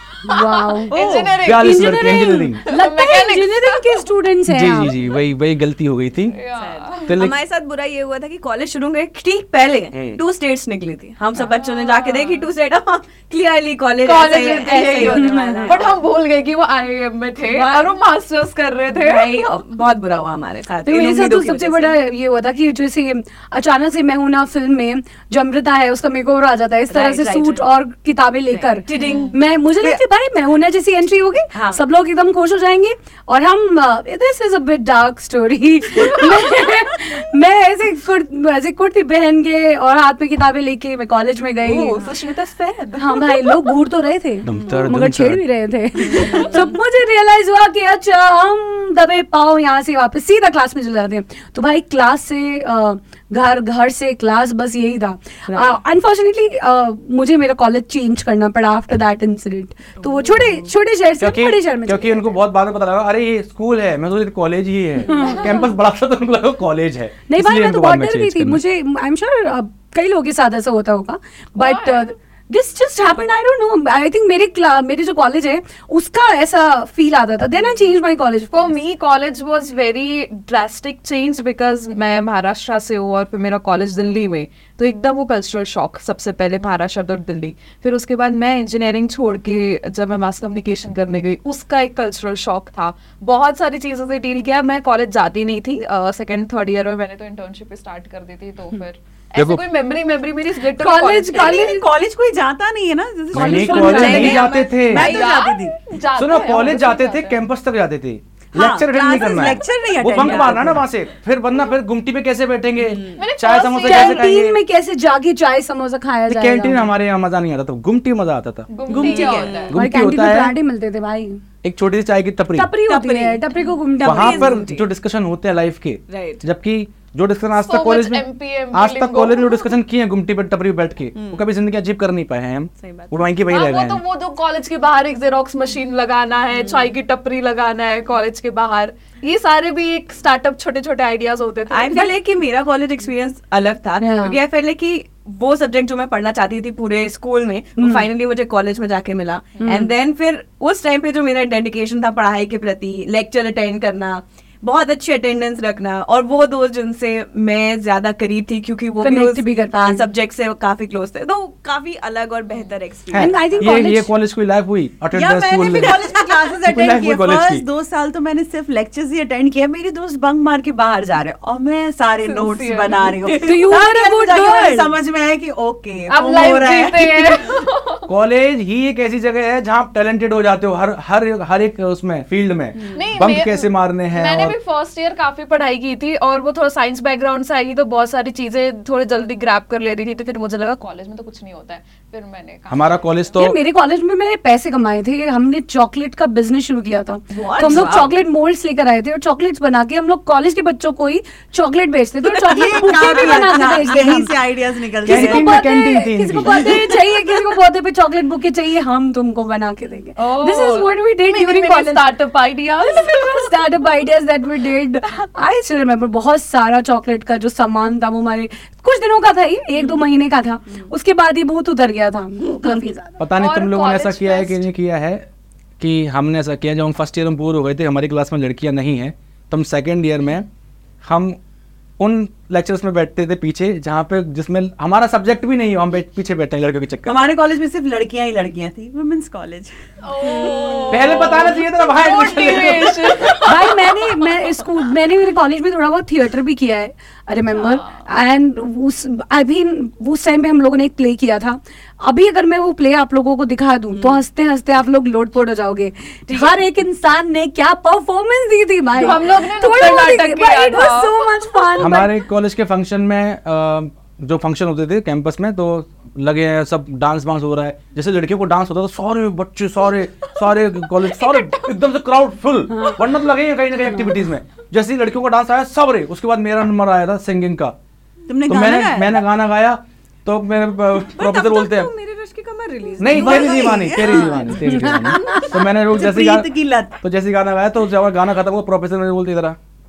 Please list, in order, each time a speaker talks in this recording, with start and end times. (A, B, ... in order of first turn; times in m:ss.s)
0:00.2-0:04.1 A
0:00.2-0:05.0 B
0:01.4-0:02.6 C
0:04.5-0:06.4 C
0:06.3-0:07.2 A
0:06.6-0:16.0 D
0:07.1-0:07.4 C
0:09.9-0:10.2 C
0:11.4-0:12.5 A
0:14.0-0:19.5 A
0:14.9-0:15.8 B
0:17.4-0:17.9 D
0:18.9-0:22.0 D
0:20.8-0:42.1 B
0:26.9-0:27.6 D
0:28.5-0:29.3 D
0:28.9-0:29.4 A
0:31.5-0:31.8 D
0:41.6-0:43.7 A
0:43.0-1:02.4 B
0:44.4-0:45.4 C
0:46.1-0:46.7 A
0:46.2-0:46.6 D
0:55.5-0:55.8 C
1:00.0-1:00.6 D
1:01.2-1:08.6 C
1:05.1-1:05.6 B
1:07.3-1:18.7 B
1:11.6-1:12.1 A
1:18.5-1:41.6 A
1:39.3-1:39.6 C
1:40.8-1:41.9 B
1:41.3-1:45.7 E
1:43.3-1:44.5 B
1:43.3-1:45.1 C
1:43.8-1:47.4 A
1:46.1-1:54.6 C
1:48.5-1:50.8 E
1:53.2-1:54.3 A
1:53.8-1:56.9 B
1:56.3-2:00.6 C
1:58.7-1:59.8 A
1:58.9-1:59.6 E
1:58.9-1:59.7 D
1:59.7-2:01.4 B
2:01.6-2:02.7 C
2:02.5-2:04.6 B
2:02.9-2:03.4 E
2:03.6-2:04.9 D
2:04.0-2:14.0 C
2:06.1-2:06.4 D
2:07.6-2:09.7 A
2:11.2-2:11.4 D
2:12.8-2:13.3 D
2:13.5-2:22.1 A
2:16.6-2:16.9 D
2:21.7-2:43.6 D
2:24.0-2:24.4 B
2:27.8-2:28.1 B
2:29.6-2:29.9 B
2:39.0-2:40.0 B
2:43.1-2:46.1 C
2:43.1-2:44.1 B
2:45.1-2:57.5 E
2:45.7-2:46.4 D
2:46.7-2:47.6 C
2:52.2-2:53.1 A
2:53.2-2:54.9 B
2:56.1-2:58.0 A
2:58.1-3:04.6 C
3:02.9-3:13.3 A
3:12.7-3:13.6 C
3:13.4-3:24.3 B
3:17.3-3:18.1 D
3:22.5-3:25.5 E
3:25.0-3:32.1 B
3:25.1-3:26.6 C
3:30.2-3:33.5 A
3:32.8-3:43.3 B
3:43.2-3:45.2 C
3:43.4-3:44.7 A
3:45.8-3:50.5 C
3:51.1-3:51.4 C
3:52.0-3:57.2 C
3:57.1-3:59.7 E
4:00.0-4:04.2 A
4:00.3-4:00.8 E
4:00.9-4:03.4 C
4:03.4-4:22.1 B
4:18.9-4:21.2 A
4:21.8-4:37.7 C
4:31.2-4:31.6 A
4:38.3-4:39.2 E
4:38.4-4:41.9 C
4:41.2-4:44.6 D
4:43.0-4:49.6 C
4:43.1-4:44.4 E
4:44.6-4:45.4 B
4:45.8-4:47.0 E